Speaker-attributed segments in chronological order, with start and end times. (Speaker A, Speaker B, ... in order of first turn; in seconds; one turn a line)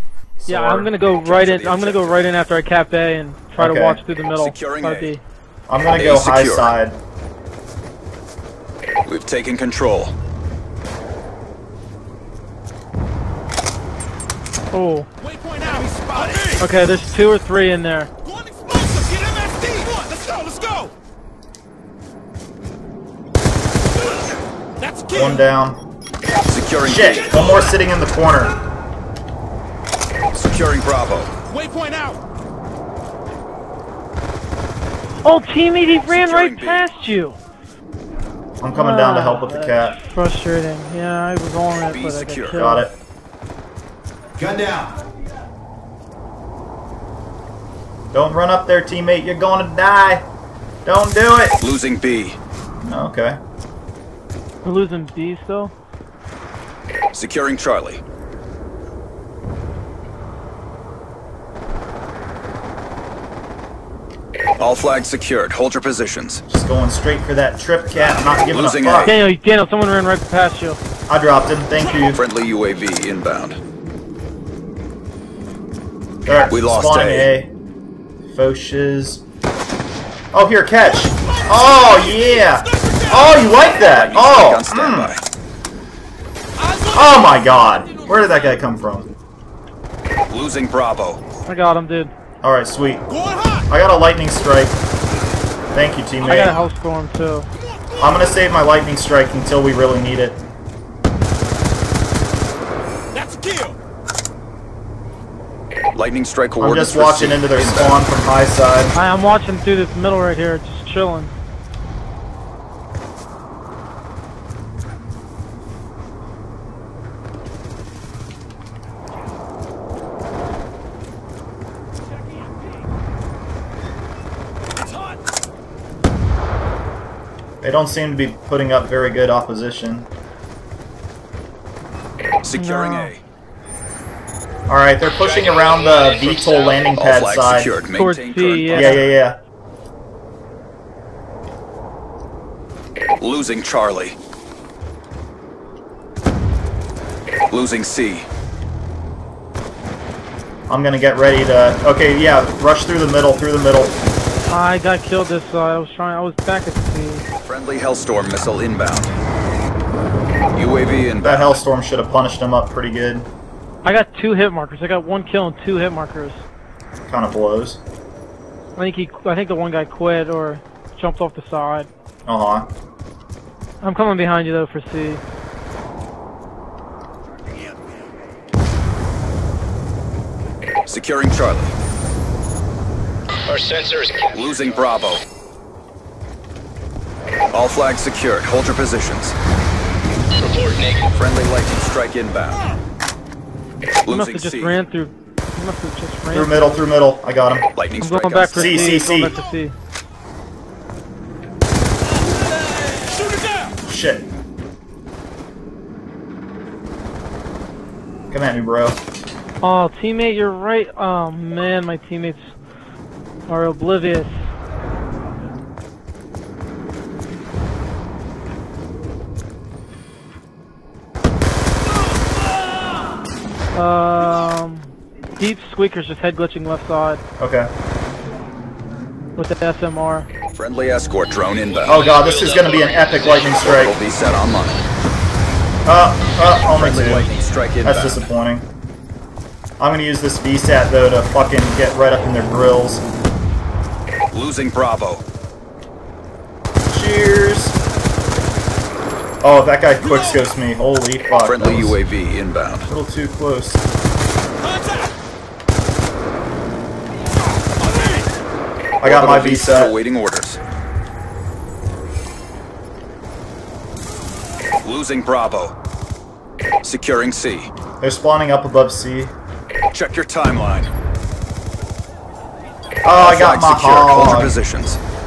Speaker A: 0.4-0.9
Speaker B: 0.5-5.2
Speaker C: 1.1-2.3
Speaker A: 3.6-4.0
Speaker C: 4.4-5.2
Speaker A: 5.7-7.0
Speaker C: 6.0-6.8
Speaker C: 9.1-10.2
Speaker B: 14.7-15.1
Speaker D: 15.2-16.5
Speaker B: 16.6-18.1
Speaker D: 18.4-20.9
Speaker D: 24.8-25.1
Speaker A: 25.1-25.8
Speaker C: 26.5-27.5
Speaker A: 26.8-28.6
Speaker C: 30.3-31.3
Speaker D: 31.5-32.2
Speaker B: 35.2-37.4
Speaker C: 36.0-36.9
Speaker A: 38.6-40.0
Speaker B: 38.7-42.9
Speaker C: 41.9-42.7
Speaker A: 42.5-42.9
Speaker C: 44.5-44.8
Speaker A: 48.1-50.3
Speaker A: 50.9-51.6
Speaker C: 51.6-52.4
Speaker A: 52.8-53.4
Speaker B: 54.6-55.7
Speaker C: 57.1-58.0
Speaker C: 64.6-66.4
Speaker A: 66.5-69.2
Speaker C: 68.4-69.2
Speaker B: 69.0-70.8
Speaker A: 71.1-72.2
Speaker C: 72.1-73.6
Speaker A: 76.3-77.5
Speaker C: 76.5-77.3
Speaker A: 78.3-79.2
Speaker A: 80.3-85.2
Speaker C: 83.6-85.2
Speaker A: 86.8-89.1
Speaker C: 90.3-91.2
Speaker B: 91.5-92.1
Speaker A: 92.4-93.1
Speaker D: 93.2-93.5
Speaker A: 93.7-94.8
Speaker A: 95.7-96.6
Speaker B: 96.2-97.5
Speaker A: 98.0-100.4
Speaker D: 103.2-103.7
Speaker C: 106.0-108.0
Speaker A: 106.6-109.0
Speaker B: 108.9-111.3
Speaker A: 127.6-130.1
Speaker C: 132.4-133.2
Speaker B: 132.6-133.1
Speaker A: 134.7-137.7
Speaker E: 135.2-137.0
Speaker C: 137.0-139.1
Speaker B: 138.0-139.0
Speaker A: 138.7-139.4
Speaker C: 143.2-144.2
Speaker C: 147.5-148.3
Speaker A: 150.7-154.0
Speaker B: 154.5-157.3
Speaker C: 157.4-159.1
Speaker C: 160.5-161.6
Speaker A: 161.2-163.3
Speaker B: 163.8-166.4
Speaker A: 167.1-167.8
Speaker B: 168.8-171.9
Speaker A: 172.3-172.7
Speaker B: 173.8-175.2
Speaker C: 180.9-181.7
Speaker E: 183.5-184.7
Speaker C: 184.3-185.2
Speaker C: 187.5-189.3
Speaker E: 190.4-191.2
Speaker C: 191.2-192.7
Speaker C: 194.0-194.8
Speaker B: 194.1-196.8
Speaker A: 196.3-197.7
Speaker C: 197.8-199.0
Speaker B: 198.0-199.8
Speaker A: 198.5-199.3
Speaker A: 203.8-204.3
Speaker A: 208.3-209.0
Speaker B: 209.6-212.5
Speaker B: 213.5-214.3
Speaker B: 223.7-227.2
Speaker A: 227.4-227.7
Speaker B: 229.4-230.3
Speaker C: 230.6-232.1
Speaker E: 231.8-233.9
Speaker A: 231.9-233.9
Speaker C: 233.7-234.8
Speaker A: 235.9-237.3
Speaker C: 236.7-238.2
Speaker A: 237.8-238.7
Speaker A: 239.8-243.1
Speaker C: 244.3-245.2
Speaker A: 246.9-247.8
Speaker A: 249.4-252.0
Speaker C: 251.4-252.9
Speaker A: 252.9-253.8
Speaker A: 259.0-260.0
Speaker C: 259.0-260.6
Speaker C: 264.8-265.7
Speaker C: 266.8-267.7
Speaker A: 268.0-269.3
Speaker C: 269.9-270.9
Speaker A: 273.0-274.6
Speaker C: 273.2-275.0